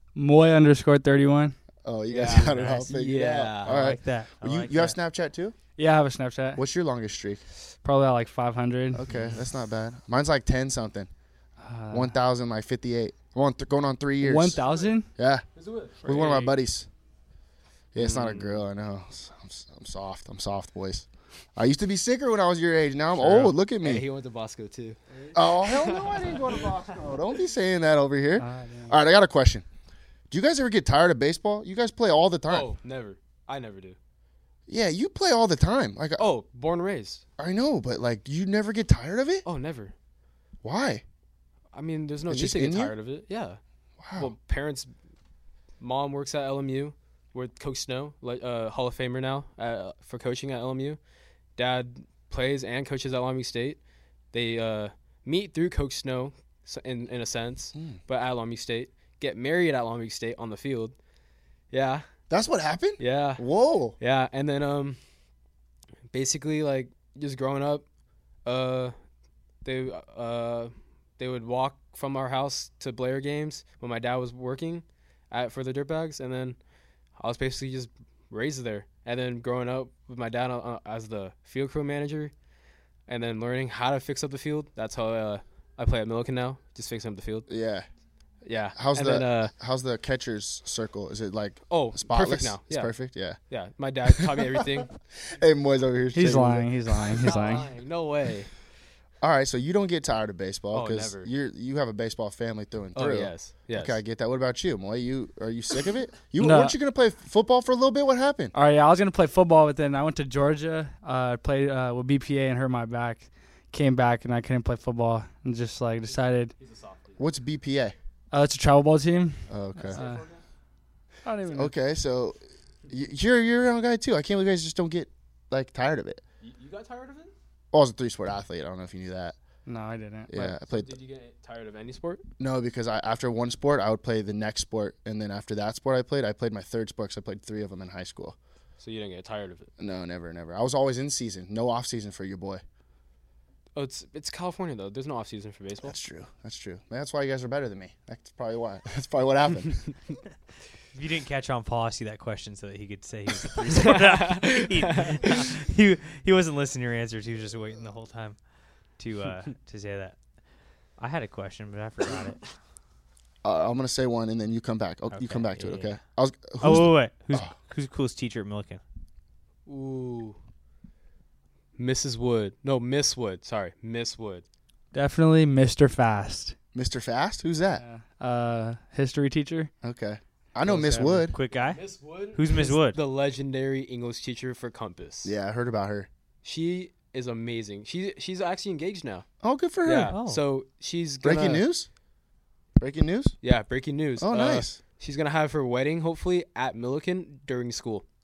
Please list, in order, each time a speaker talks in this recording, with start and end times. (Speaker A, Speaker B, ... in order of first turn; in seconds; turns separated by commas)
Speaker A: 0.2-1.6, Speaker B: 1.9-5.6, Speaker C: 2.1-3.8, Speaker D: 3.6-5.0, Speaker A: 5.8-6.6, Speaker B: 6.6-7.4, Speaker A: 7.8-9.1, Speaker B: 8.9-11.1, Speaker A: 11.6-12.2, Speaker B: 11.9-14.6, Speaker A: 14.2-15.1, Speaker B: 15.2-15.4, Speaker C: 15.6-16.6, Speaker B: 16.0-16.9, Speaker B: 17.9-24.1, Speaker C: 18.0-18.6, Speaker C: 23.2-27.0, Speaker B: 25.3-29.6, Speaker A: 28.4-29.0, Speaker B: 30.3-32.7, Speaker C: 32.5-34.0, Speaker B: 34.7-36.2, Speaker C: 36.2-37.2, Speaker B: 37.4-39.5, Speaker C: 39.5-39.9, Speaker B: 40.6-41.0, Speaker C: 41.7-43.6, Speaker B: 42.3-42.9, Speaker B: 44.0-44.3, Speaker C: 44.2-44.9, Speaker C: 45.8-51.0, Speaker C: 51.6-53.8, Speaker C: 54.3-61.0, Speaker C: 61.7-62.0, Speaker B: 62.3-64.0, Speaker C: 63.0-63.5, Speaker C: 64.0-65.0, Speaker C: 66.1-67.8, Speaker C: 68.5-69.0, Speaker C: 69.6-76.6, Speaker C: 77.2-82.3, Speaker C: 83.1-87.5, Speaker B: 87.5-87.9, Speaker C: 88.4-89.5, Speaker B: 88.8-93.4, Speaker C: 91.7-93.0, Speaker C: 93.5-94.9, Speaker B: 94.1-97.4, Speaker A: 96.1-97.6, Speaker C: 97.2-98.5, Speaker B: 99.2-108.5, Speaker C: 100.7-101.3, Speaker C: 103.0-104.0, Speaker A: 106.4-106.7, Speaker A: 108.5-116.5, Speaker C: 116.6-117.2, Speaker B: 117.2-118.0, Speaker A: 118.3-120.2, Speaker B: 119.5-120.0, Speaker C: 119.9-120.4, Speaker A: 121.2-121.7, Speaker B: 121.5-126.2, Speaker C: 126.4-127.3, Speaker B: 127.7-129.4, Speaker A: 129.7-130.3, Speaker B: 130.3-131.0, Speaker C: 130.3-132.2, Speaker B: 132.4-138.4, Speaker C: 138.8-139.7, Speaker B: 139.8-142.6, Speaker C: 143.8-145.9, Speaker B: 145.8-149.8, Speaker D: 150.9-158.4, Speaker C: 153.6-155.5, Speaker D: 159.0-160.2, Speaker D: 161.0-162.4, Speaker B: 163.4-167.5, Speaker D: 165.1-165.9, Speaker D: 166.6-168.8, Speaker C: 169.7-170.4, Speaker C: 171.8-174.4, Speaker A: 174.9-176.6, Speaker B: 176.7-177.8, Speaker A: 177.8-179.7, Speaker B: 179.8-181.3, Speaker A: 180.7-181.2, Speaker D: 181.3-183.0, Speaker C: 181.7-185.3, Speaker B: 185.2-186.1, Speaker C: 186.4-189.3, Speaker B: 189.4-190.2, Speaker C: 189.8-191.6, Speaker D: 190.1-190.4, Speaker B: 191.2-191.9, Speaker B: 192.8-193.4, Speaker C: 193.4-198.0, Speaker B: 194.2-194.8